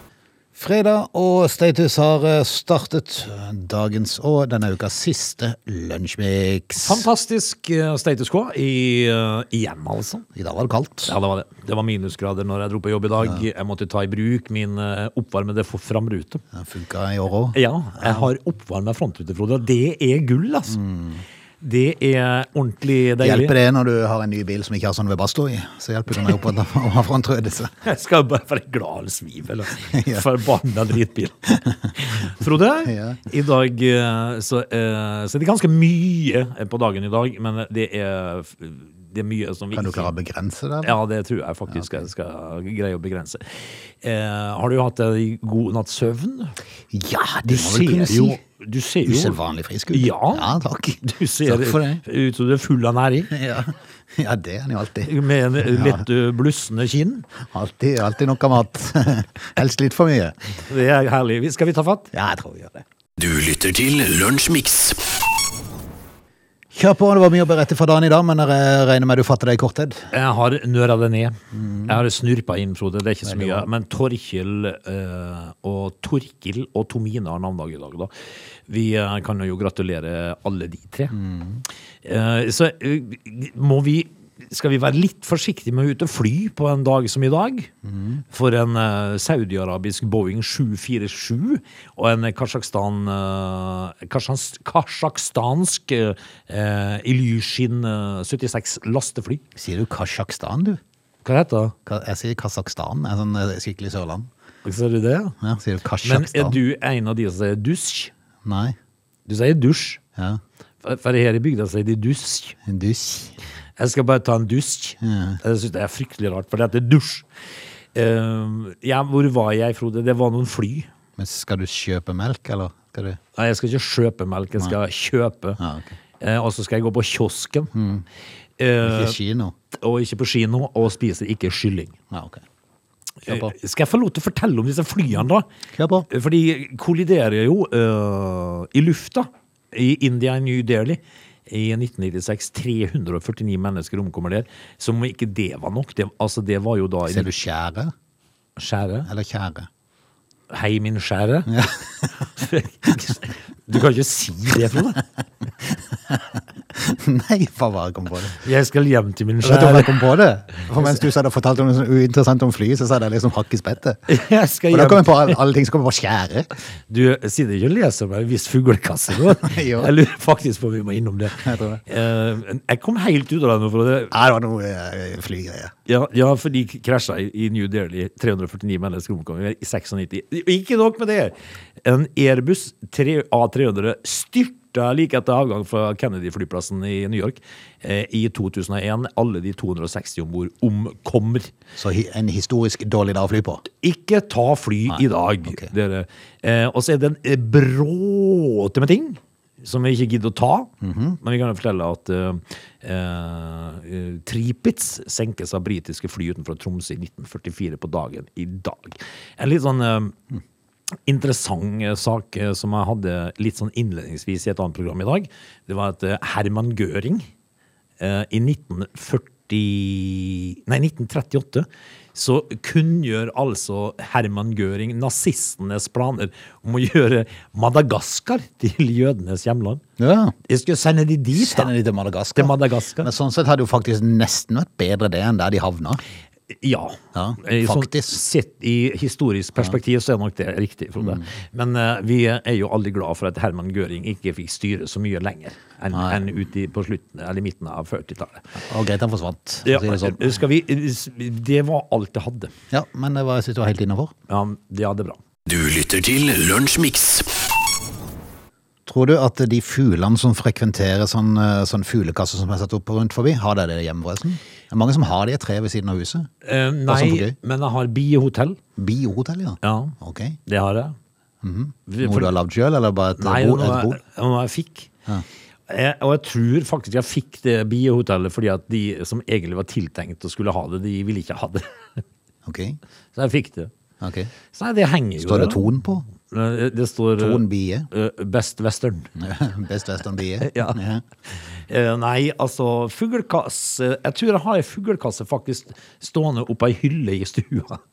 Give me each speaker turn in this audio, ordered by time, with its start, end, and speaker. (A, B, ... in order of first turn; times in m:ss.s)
0:00.5-0:07.1 A
0:06.8-0:10.2 B
0:10.3-0:11.1 A
0:11.0-0:16.4 B
0:16.5-0:18.3 A
0:17.5-0:20.8 B
0:20.7-0:21.2 A
0:21.6-0:23.5 B
0:23.2-0:27.7 A
0:27.8-0:40.1 B
0:29.9-0:30.2 A
0:32.8-0:33.2 A
0:39.7-0:41.0 A
0:40.8-0:46.5 B
0:41.7-0:42.0 A
0:46.9-0:48.4 A
0:47.5-0:49.4 B
0:49.0-0:52.0 A
0:49.9-0:50.5 B
0:51.0-0:53.3 B
0:53.3-0:56.0 A
0:55.0-0:57.3 B
0:57.5-1:00.4 A
1:00.7-1:02.1 B
1:02.1-1:02.8 A
1:03.2-1:05.0 C
1:06.7-1:10.0 A
1:10.1-1:18.1 B
1:11.5-1:12.0 A
1:13.2-1:13.6 A
1:18.7-1:21.1 B
1:21.1-1:21.6 A
1:22.0-1:27.7 B
1:27.8-1:28.2 A
1:28.3-1:39.4 B
1:39.5-1:40.8 A
1:41.2-1:41.7 B
1:41.8-1:44.3 A
1:44.6-1:45.4 B
1:45.4-1:46.6 A
1:46.0-1:48.1 B
1:48.4-1:48.7 A
1:49.2-1:50.0 B
1:50.8-1:52.6 B
1:52.6-1:53.4 A
1:53.8-1:57.3 B
1:55.0-1:55.4 A
1:57.9-2:00.9 B
2:01.2-2:03.2 A
2:03.3-2:05.6 B
2:05.6-2:05.9 A
2:06.2-2:07.7 B
2:07.7-2:08.0 A
2:08.6-2:09.2 B
2:08.8-2:09.5 A
2:09.7-2:11.9 B
2:12.1-2:12.4 A
2:13.2-2:13.5 A
2:13.2-2:15.5 B
2:15.8-2:16.1 A
2:16.1-2:27.3 B
2:27.1-2:27.9 A
2:28.6-2:29.1 B
2:29.0-2:29.7 A
2:30.5-2:31.5 B
2:31.5-2:32.3 A
2:32.3-2:35.0 B
2:36.1-2:38.4 A
2:38.4-2:40.2 B
2:39.4-2:44.0 A
2:40.7-2:41.1 B
2:44.1-2:45.4 B
2:44.7-2:46.5 A
2:46.9-2:54.1 B
2:49.4-2:49.9 A
2:51.4-2:51.8 A
2:54.1-2:55.7 A
2:55.8-3:11.5 B
3:11.8-3:13.6 A
3:13.6-3:30.2 B
3:20.8-3:21.2 A
3:31.0-3:37.3 B
3:38.0-3:49.8 B
3:50.0-3:50.3 A
3:50.4-3:51.7 B
3:51.3-3:56.0 A
3:52.4-3:53.1 B
3:56.5-4:08.5 B
3:57.1-3:58.2 A
4:01.0-4:01.3 A
4:05.9-4:06.2 A
4:08.6-4:10.4 A
4:09.6-4:12.5 B
4:12.7-4:14.1 A
4:14.3-4:15.2 B
4:15.4-4:17.3 C
4:18.8-4:26.3 A
4:26.4-4:28.6 B
4:26.9-4:27.3 A
4:28.8-4:30.4 A
4:29.6-4:29.9 B
4:30.4-4:31.0 B
4:31.4-4:34.0 A
4:31.9-4:32.3 B
4:33.2-4:34.9 B
4:35.7-4:42.0 B
4:42.4-4:42.8 A
4:43.1-4:43.7 B
4:44.0-4:44.3 A
4:44.5-4:45.7 B
4:45.2-4:46.1 A
4:46.2-4:49.1 B
4:47.2-4:47.9 A
4:49.2-4:51.0 A
4:50.4-4:50.8 B
4:51.5-4:57.8 B